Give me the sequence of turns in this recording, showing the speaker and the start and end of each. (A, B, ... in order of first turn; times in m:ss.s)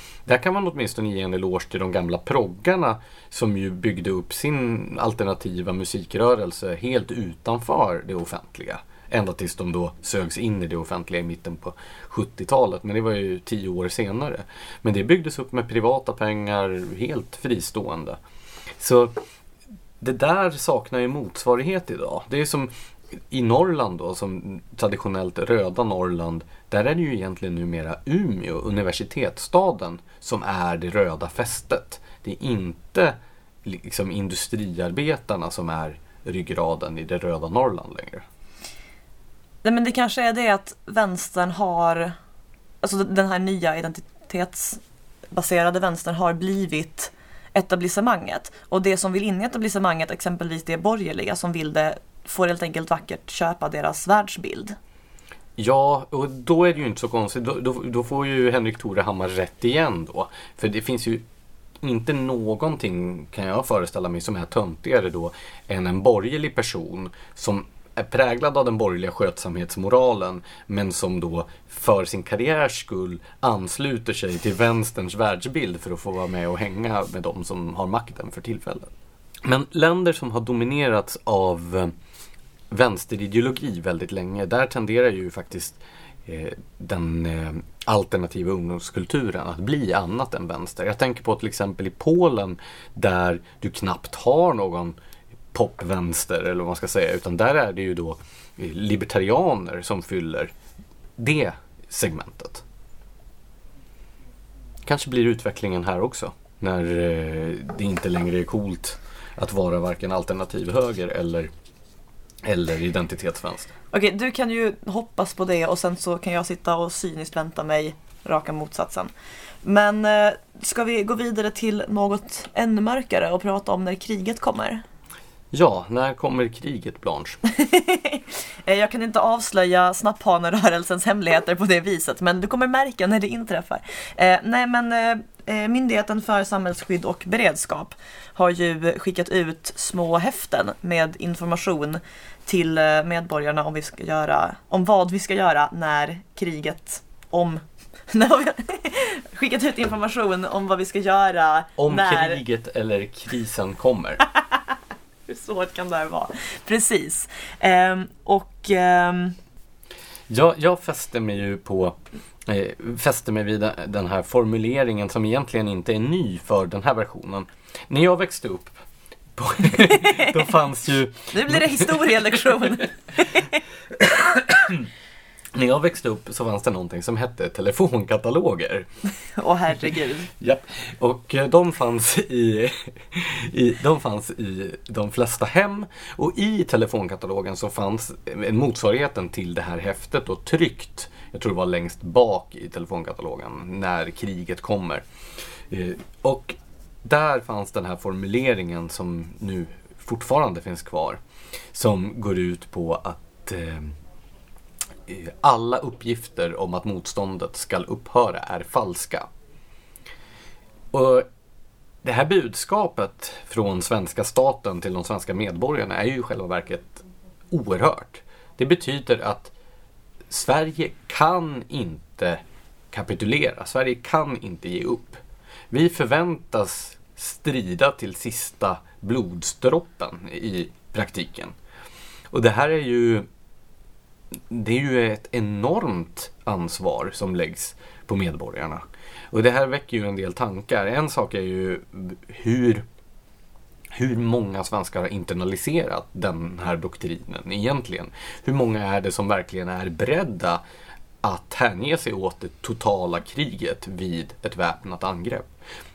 0:00.3-0:18.2 A
0:18.8-0:19.1 A
0:20.0-0:38.2 A
0:39.6-0:42.2 B
0:42.8-0:44.8 B
0:45.3-0:54.8 B
0:55.6-1:01.2 A
1:01.8-1:18.9 A
1:19.4-1:21.9 A
1:22.7-1:35.0 A
1:35.5-1:40.5 A
1:41.2-1:42.6 A
1:44.9-1:51.5 A
1:52.4-1:53.7 A
1:53.9-1:59.1 B
1:59.6-2:04.8 B
2:05.5-2:07.4 A
2:07.5-2:32.4 B
2:31.8-2:34.2 A
2:35.3-2:39.4 B
2:40.3-2:48.7 A
2:49.4-2:52.4 A
2:50.0-2:50.3 B
2:51.3-2:53.6 B
2:54.0-2:54.9 A
2:55.6-2:58.9 A
2:59.3-3:00.3 B
3:00.3-3:15.0 A
3:15.7-3:21.2 A
3:21.7-3:23.9 A
3:25.1-3:29.3 A
3:30.9-3:31.3 A
3:32.0-3:39.5 A
3:40.3-3:42.4 A
3:42.9-3:51.6 A
3:52.3-3:53.3 A
3:54.5-4:02.8 A
4:03.9-4:10.6 A
4:11.2-4:15.5 A